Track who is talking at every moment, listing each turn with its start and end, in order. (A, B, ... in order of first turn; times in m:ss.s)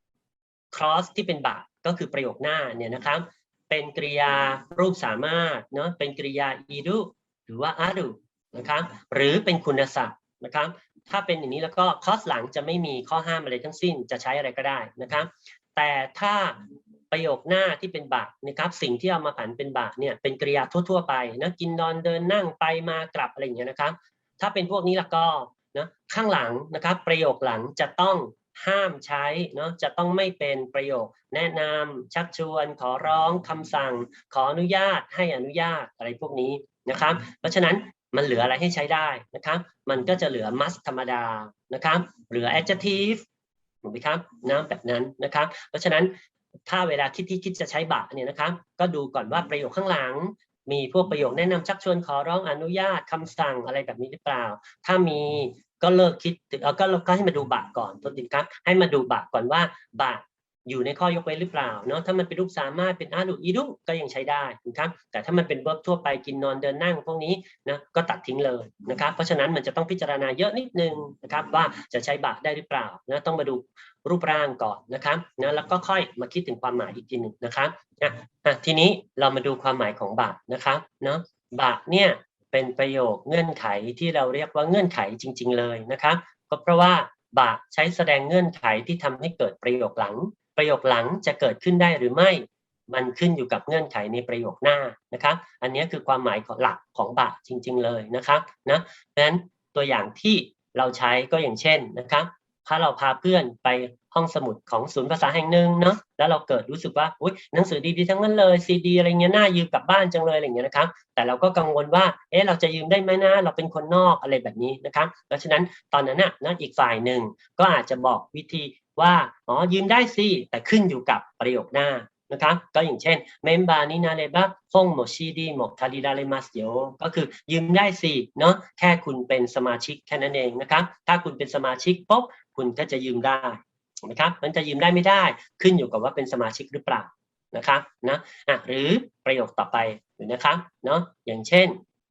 0:00.7-0:43.2 A
0:43.8-0:46.1 A
0:46.7-2:21.8 A